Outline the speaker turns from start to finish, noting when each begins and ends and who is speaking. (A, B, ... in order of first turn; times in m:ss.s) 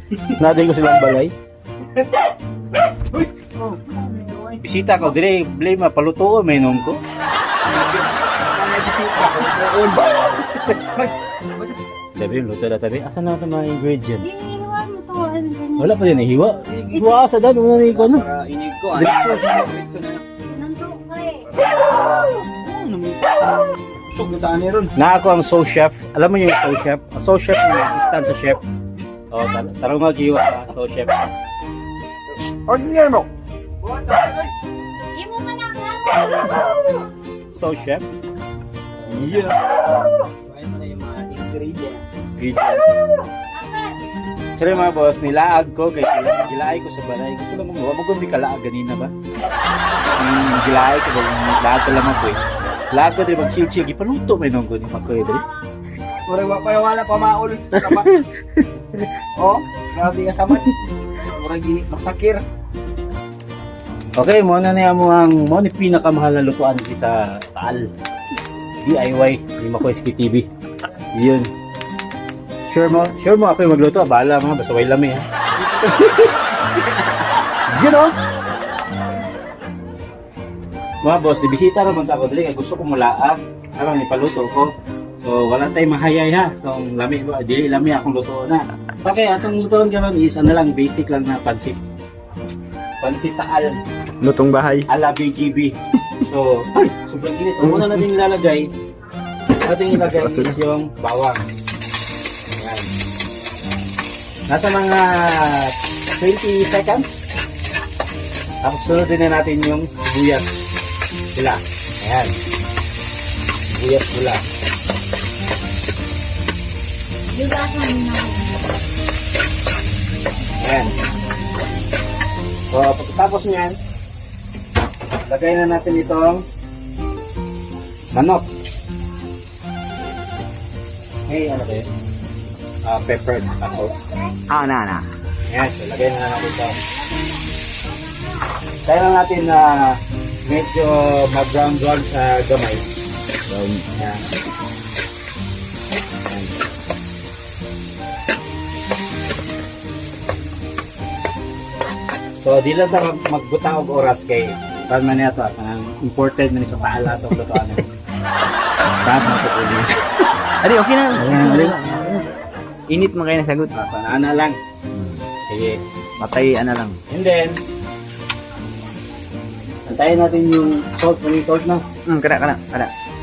0:00.3-0:01.3 A
0:03.1-0:04.6 B
0:04.6-0:07.0 A
0:07.6-0:11.8 B
0:12.1-0:14.4 A
0:14.2-0:15.9 C
0:15.8-0:18.2 A
0:17.7-0:20.2 B
0:18.9-0:19.6 A
0:20.4-0:21.5 C
0:21.5-0:24.9 B
0:25.0-0:28.6 A
0:29.3-0:31.2 A
0:32.4-0:33.3 B
0:33.8-0:34.5 B
0:35.1-0:36.6 C
0:37.5-0:38.1 A
0:39.0-0:43.0 B
0:39.1-0:39.5 A
0:42.4-0:43.0 A
0:43.5-0:44.0 C
0:44.6-0:49.1 A
0:50.2-0:52.4 A
0:52.9-0:55.4 A
0:56.1-0:58.3 B
0:59.2-1:02.4 B
1:04.2-1:07.9 A
1:08.8-1:10.5 A
1:11.1-1:11.5 A
1:12.7-1:16.3 A
1:15.8-1:17.0 B
1:17.7-1:18.2 A
1:21.0-1:24.7 A
1:25.2-1:31.8 A
1:33.0-1:33.8 A
1:34.2-1:34.9 B
1:34.9-1:38.7 A
1:37.6-1:38.0 B
1:39.6-1:41.4 A
1:39.9-1:40.6 B
1:42.6-1:42.9 A
1:44.5-1:47.3 A
1:48.6-1:50.4 A
1:51.3-1:52.3 A
1:53.7-1:54.4 A
1:57.3-1:58.7 C
2:00.6-2:00.9 A
2:02.7-2:03.8 A
2:05.2-2:06.4 A
2:08.1-2:08.4 A
2:11.3-2:11.9 A
2:12.8-2:14.0 A
2:14.5-2:15.1 B
2:15.5-2:16.8 A
2:17.0-2:18.4 C
2:18.8-2:22.8 A
2:23.5-2:23.9 B
2:23.9-2:24.2 A
2:26.3-2:26.5 A
2:32.4-2:37.8 A
2:39.0-2:40.0 A
2:40.6-2:42.3 B
2:41.2-2:41.8 A
2:42.9-2:43.7 B
2:43.7-2:44.6 A
2:44.9-2:45.2 B
2:45.5-2:45.8 A
2:46.2-2:47.0 B
2:47.1-2:47.6 A
2:49.8-2:51.8 A
2:52.1-2:52.9 B